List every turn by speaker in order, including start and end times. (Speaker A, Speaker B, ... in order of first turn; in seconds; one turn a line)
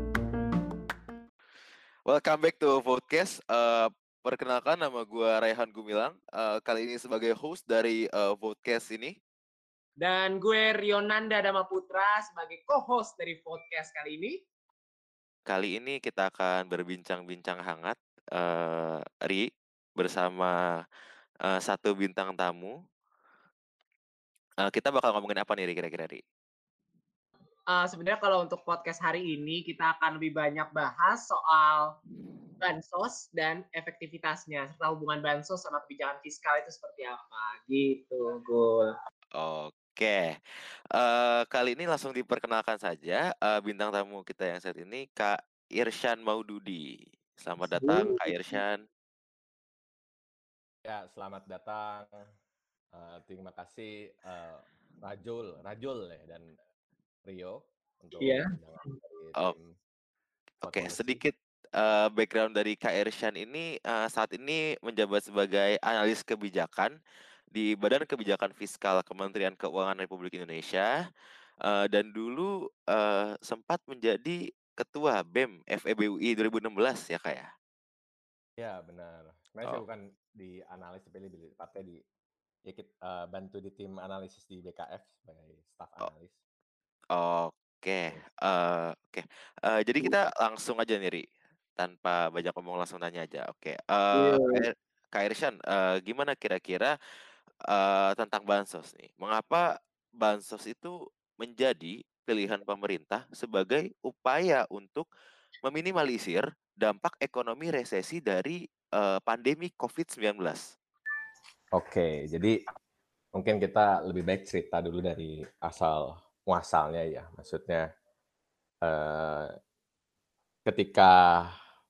Speaker A: 2.0-9.2
Speaker B: 10.0-14.4
Speaker A: 15.5-20.6
Speaker A: 21.4-22.7
Speaker A: 24.6-26.2
Speaker B: 27.7-31.9
Speaker B: 32.6-38.9
Speaker A: 39.4-46.9
Speaker A: 47.4-48.8
Speaker B: 47.8-48.6
Speaker C: 50.8-52.1
Speaker C: 52.9-56.5
Speaker C: 57.3-59.7
Speaker B: 58.2-58.5
Speaker A: 60.6-66.9
Speaker C: 60.6-61.2
Speaker A: 67.5-70.9
Speaker A: 71.7-77.5
Speaker C: 78.6-82.0
Speaker C: 82.7-86.4
Speaker A: 87.1-91.2
Speaker A: 91.8-96.9
Speaker B: 94.1-94.6
Speaker A: 97.7-99.7
Speaker A: 100.2-105.0
Speaker A: 105.6-110.6
Speaker C: 111.7-112.6
Speaker C: 113.3-117.9
Speaker C: 118.8-119.5
Speaker C: 120.6-121.5